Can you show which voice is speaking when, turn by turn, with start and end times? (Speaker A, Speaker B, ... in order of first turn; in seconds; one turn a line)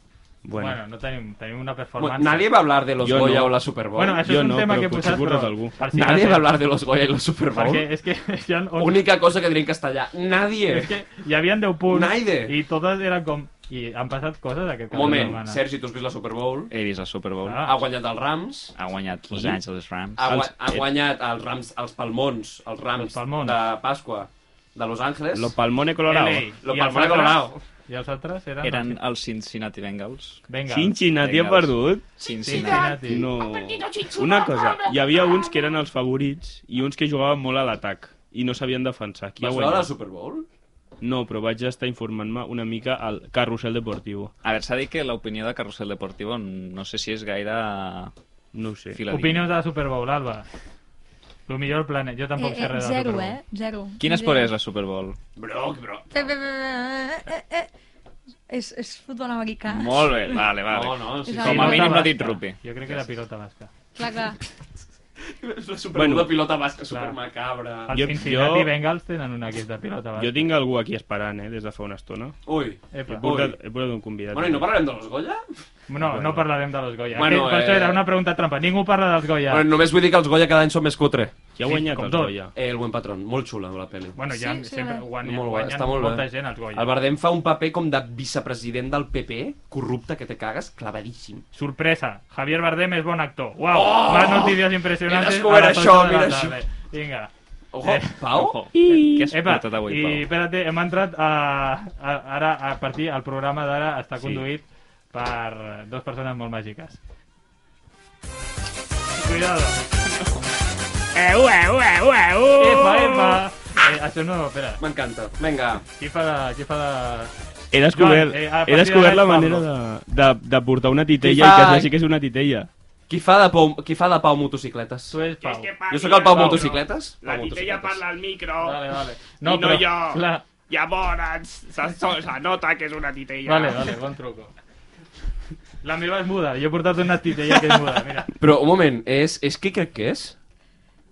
Speaker A: 0.5-0.8
Speaker B: 0.6-2.5
Speaker C: 2.0-4.3
Speaker A: 3.0-3.6
Speaker B: 4.0-6.5
Speaker A: 4.2-5.8
Speaker C: 5.9-7.9
Speaker B: 7.5-9.0
Speaker C: 8.8-10.9
Speaker B: 10.7-15.6
Speaker C: 11.9-12.6
Speaker C: 14.9-16.7
Speaker A: 14.9-15.4
Speaker D: 16.7-17.7
Speaker B: 17.4-17.8
Speaker C: 17.6-18.7
Speaker D: 18.8-20.4
Speaker A: 19.3-19.6
Speaker C: 20.2-25.5
Speaker A: 20.2-20.9
Speaker B: 23.0-23.6
Speaker A: 25.3-26.6
Speaker B: 26.1-29.0
Speaker C: 26.6-27.6
Speaker D: 28.6-30.4
Speaker B: 30.5-31.0
Speaker A: 30.7-39.9
Speaker D: 31.1-33.2
Speaker B: 32.4-33.3
Speaker C: 39.4-40.5
Speaker A: 41.0-44.3
Speaker D: 44.4-48.1
Speaker A: 48.5-49.0
Speaker D: 48.9-49.5
Speaker B: 49.1-50.5
Speaker B: 51.5-53.4
Speaker E: 52.4-54.5
Speaker D: 54.0-55.2
Speaker C: 55.4-56.3
Speaker E: 56.1-57.7
Speaker E: 58.5-60.4
Speaker D: 59.7-62.6
Speaker C: 60.7-62.1
Speaker E: 61.2-62.0
Speaker B: 61.4-63.7
Speaker E: 64.0-64.4
Speaker C: 65.2-68.1
Speaker A: 65.9-66.4
Speaker B: 66.9-67.2
Speaker B: 67.9-70.5
Speaker A: 67.9-68.7
Speaker A: 70.2-72.4
Speaker C: 72.5-73.5
Speaker B: 72.9-73.5
Speaker A: 73.1-74.7
Speaker C: 74.3-75.4
Speaker B: 75.9-79.7
Speaker A: 76.0-76.5
Speaker C: 77.2-78.0
Speaker C: 79.5-81.3
Speaker A: 81.6-82.5
Speaker B: 81.7-82.4
Speaker C: 82.5-84.2
Speaker B: 84.2-86.9
Speaker E: 84.3-85.1
Speaker C: 85.2-91.5
Speaker B: 91.5-97.3
Speaker C: 93.7-96.6
Speaker C: 97.7-98.6
Speaker B: 97.8-98.2
Speaker D: 98.3-100.3
Speaker A: 98.7-99.3
Speaker B: 99.3-107.0
Speaker D: 104.2-104.5
Speaker B: 109.2-109.8
Speaker A: 111.1-113.4
Speaker B: 112.6-114.8
Speaker C: 114.8-115.8
Speaker B: 116.0-117.3
Speaker A: 117.7-122.7
Speaker B: 117.9-119.7
Speaker C: 121.2-121.9
Speaker C: 123.1-125.2
Speaker B: 125.1-126.8
Speaker A: 125.4-134.0
Speaker C: 125.9-128.0
Speaker B: 128.6-130.5
Speaker B: 133.4-134.5
Speaker B: 135.8-138.3
Speaker C: 138.4-140.4